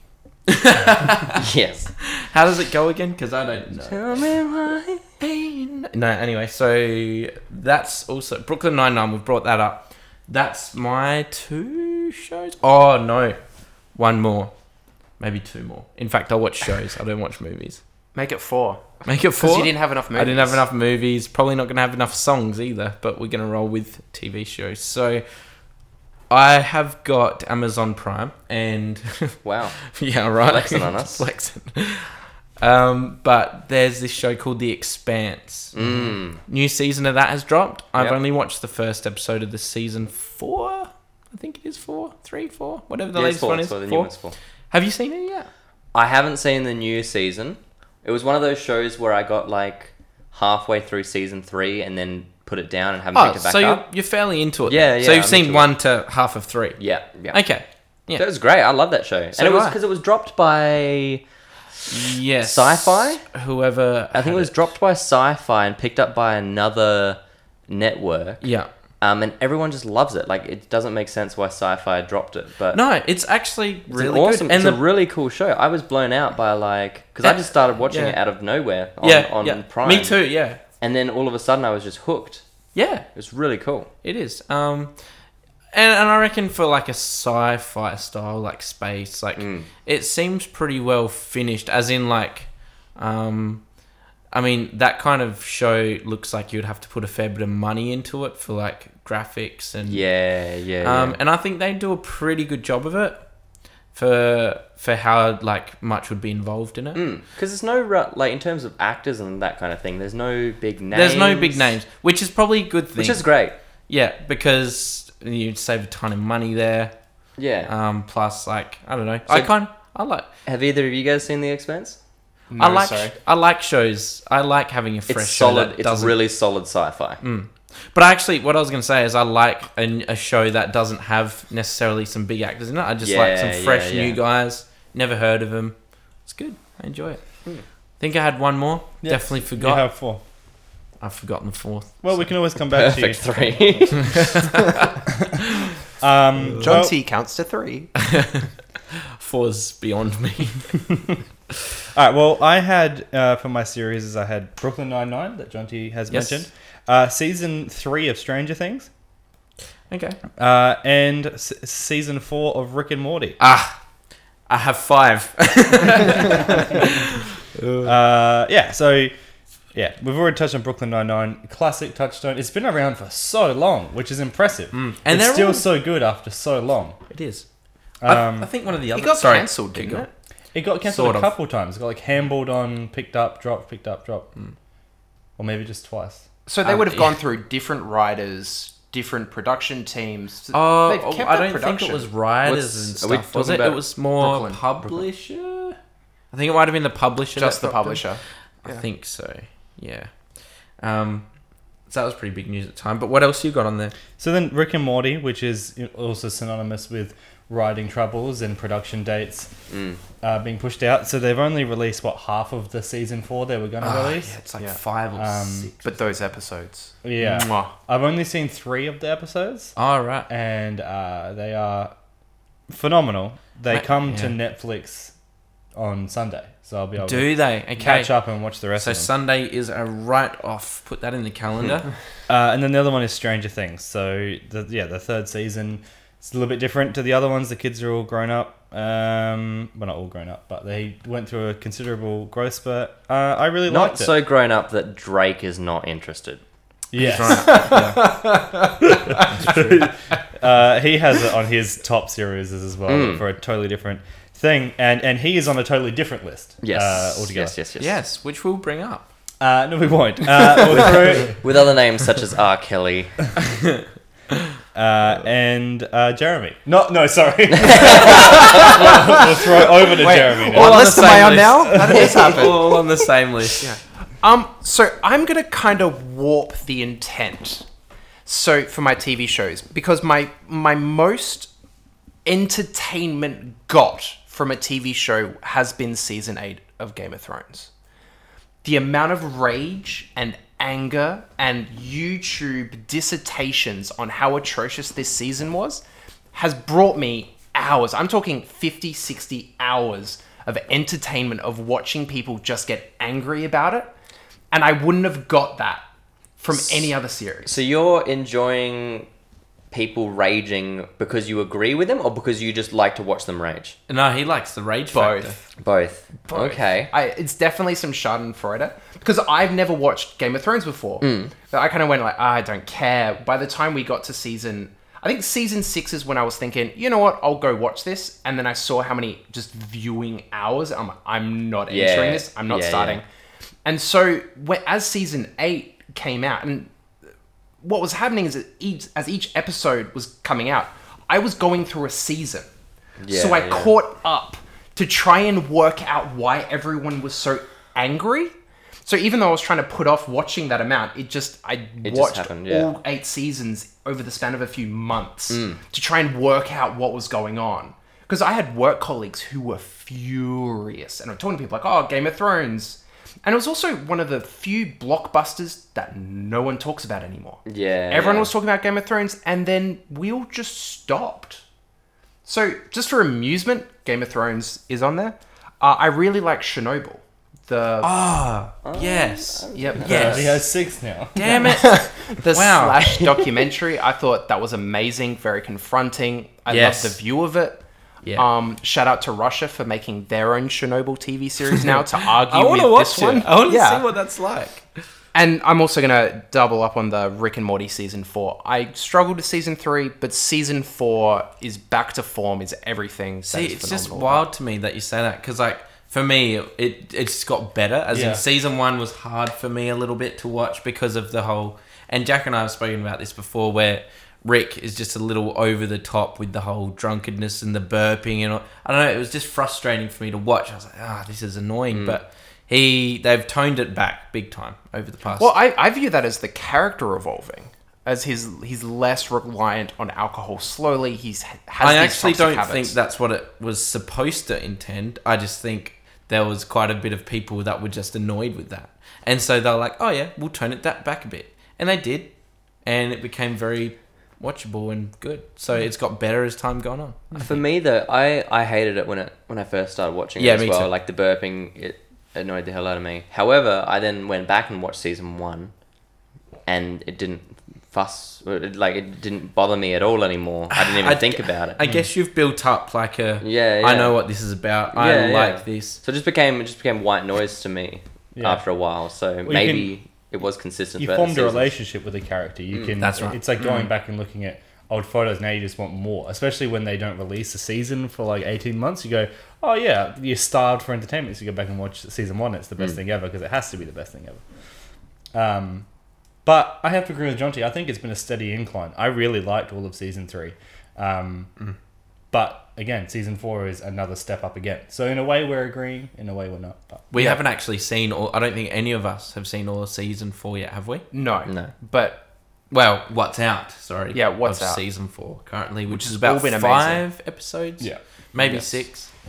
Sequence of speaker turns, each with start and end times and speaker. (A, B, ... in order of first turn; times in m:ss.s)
0:00.5-0:01.4 A
0:01.3-0:01.9 B
0:02.0-0:04.3 A
0:03.8-0:05.1 B
0:05.2-0:13.4 A
0:13.9-0:14.5 A
0:15.2-0:17.8 A
0:18.1-0:20.6 C
0:19.0-0:25.2 A
0:26.3-0:35.7 A
0:29.4-0:29.8 B
0:30.4-0:31.2 B
0:35.7-0:36.4 B
0:36.4-0:44.2 A
0:43.1-0:44.3 B
0:44.7-0:45.5 A
0:45.9-0:53.8 B
0:53.1-0:56.8 A
0:54.7-0:55.7 B
0:56.8-0:57.4 B
0:57.3-0:58.2 A
0:58.2-1:01.2 B
0:59.4-0:59.8 A
1:01.9-1:04.5 A
1:02.4-1:03.2 B
1:04.1-1:08.4 B
1:08.4-1:08.7 A
1:09.0-1:12.8 B
1:12.7-1:14.8 A
1:13.9-1:20.2 B
1:17.2-1:18.2 A
1:19.0-1:20.6 A
1:20.8-1:22.4 B
1:22.7-1:23.1 A
1:23.1-1:23.9 B
1:24.0-1:24.9 A
1:25.7-1:33.6 A
1:29.4-1:29.7 B
1:34.3-1:40.0 A
1:39.8-1:41.2 B
1:40.8-1:43.2 A
1:43.9-1:47.0 A
1:46.9-1:51.7 B
1:50.9-1:53.3 A
1:52.9-1:53.5 B
1:53.9-1:56.9 A
1:57.4-1:57.7 B
1:57.7-2:00.3 A
1:59.3-1:59.5 B
2:00.4-2:02.0 B
2:02.5-2:03.1 C
2:02.6-2:06.2 A
2:05.1-2:07.2 B
2:07.2-2:15.7 A
2:13.0-2:14.2 B
2:16.2-2:17.2 A
2:18.0-2:19.8 A
2:19.0-2:20.2 D
2:21.0-2:22.2 A
2:22.0-2:23.4 D
2:22.7-2:24.3 B
2:24.0-2:24.6 A
2:26.0-2:26.9 D
2:26.6-2:27.9 C
2:28.0-2:31.0 A
2:31.9-2:38.9 D
2:36.1-2:36.4 A
2:39.9-2:40.2 A
2:40.4-2:43.4 D
2:43.4-2:43.8 A
2:44.5-2:47.9 A
2:47.8-2:49.1 D
2:49.7-2:57.0 D
2:54.7-2:55.7 A
2:57.1-2:57.4 A
2:58.0-2:58.5 D
2:58.0-3:00.1 A
2:58.9-3:00.1 C
3:00.5-3:04.3 D
3:00.8-3:01.3 A
3:05.4-3:06.2 D
3:06.4-3:12.1 C
3:06.6-3:07.2 A
3:10.5-3:15.8 A
3:12.5-3:13.8 B
3:14.2-3:14.6 C
3:16.3-3:18.0 A
3:17.3-3:18.8 C
3:18.6-3:20.1 A
3:20.8-3:21.3 A
3:21.9-3:23.9 A
3:24.2-3:29.5 D
3:29.7-3:30.0 B
3:30.2-3:34.4 D
3:33.8-3:36.2 A
3:35.2-3:35.7 D
3:35.8-3:37.7 C
3:37.0-3:39.7 D
3:39.8-3:40.3 A
3:40.3-3:41.9 D
3:42.7-3:45.1 D
3:43.7-3:44.3 A
3:45.7-3:49.1 D
3:47.0-3:48.1 A
3:48.8-3:51.9 A
3:52.3-4:04.1 D
4:03.7-4:06.4 B
4:06.9-4:07.9 D
4:07.0-4:08.2 A
4:07.3-4:09.7 C
4:09.1-4:17.5 D
4:09.2-4:09.8 A
4:12.9-4:13.2 B
4:16.6-4:18.0 B
4:17.8-4:19.1 A
4:19.4-4:21.4 D
4:21.3-4:23.1 B
4:24.7-4:32.6 D
4:27.6-4:28.7 B
4:28.2-4:32.8 C
4:30.3-4:33.7 A
4:33.6-4:37.6 C
4:38.2-4:41.5 C
4:42.2-4:47.7 C
4:48.6-4:55.8 C
4:56.3-5:03.9 C
5:04.5-5:05.8 C
5:06.4-5:07.5 C
5:07.4-5:09.1 B
5:09.7-5:13.8 B
5:13.9-5:15.4 A
5:14.9-5:15.4 C
5:15.6-5:16.9 B
5:16.3-5:33.0 C
5:21.0-5:21.3 B
5:31.7-5:33.0 B
5:33.6-5:36.7 C
5:37.6-5:42.5 C
5:43.0-5:43.7 B
5:43.1-5:48.3 C
5:48.8-6:11.4 C
5:51.8-5:52.7 B
5:55.3-5:55.6 B
6:07.4-6:08.3 B
6:12.2-6:17.9 C
6:17.8-6:20.4 A
6:18.6-6:20.2 B
6:19.5-6:20.2 C
6:19.8-6:21.4 D
6:21.2-6:23.1 A
6:21.2-6:33.8 C
6:26.5-6:27.0 A
6:31.6-6:34.6 A
6:35.1-6:44.3 C
6:43.2-7:05.3 A
6:47.9-6:48.2 D
7:01.7-7:02.0 B
7:05.2-7:12.7 C
7:11.6-7:22.1 A
7:22.6-7:27.4 A
7:27.1-7:35.5 B
7:30.2-7:30.7 A
7:36.4-7:41.6 B
7:40.5-7:45.8 A
7:41.6-7:41.9 D
7:43.2-7:44.0 B
7:44.7-7:51.5 B
7:48.1-7:48.4 D
7:49.2-7:49.7 D
7:50.8-8:04.2 D
7:52.8-7:53.7 A
8:05.1-8:05.6 D
8:06.2-8:11.3 D
8:12.1-8:16.8 D
8:16.9-8:20.9 A
8:16.9-8:17.2 C
8:20.9-8:22.0 C
8:21.2-8:21.5 B
8:22.5-8:28.9 A
8:23.9-8:24.6 C
8:25.7-8:26.8 C
8:28.2-8:28.5 C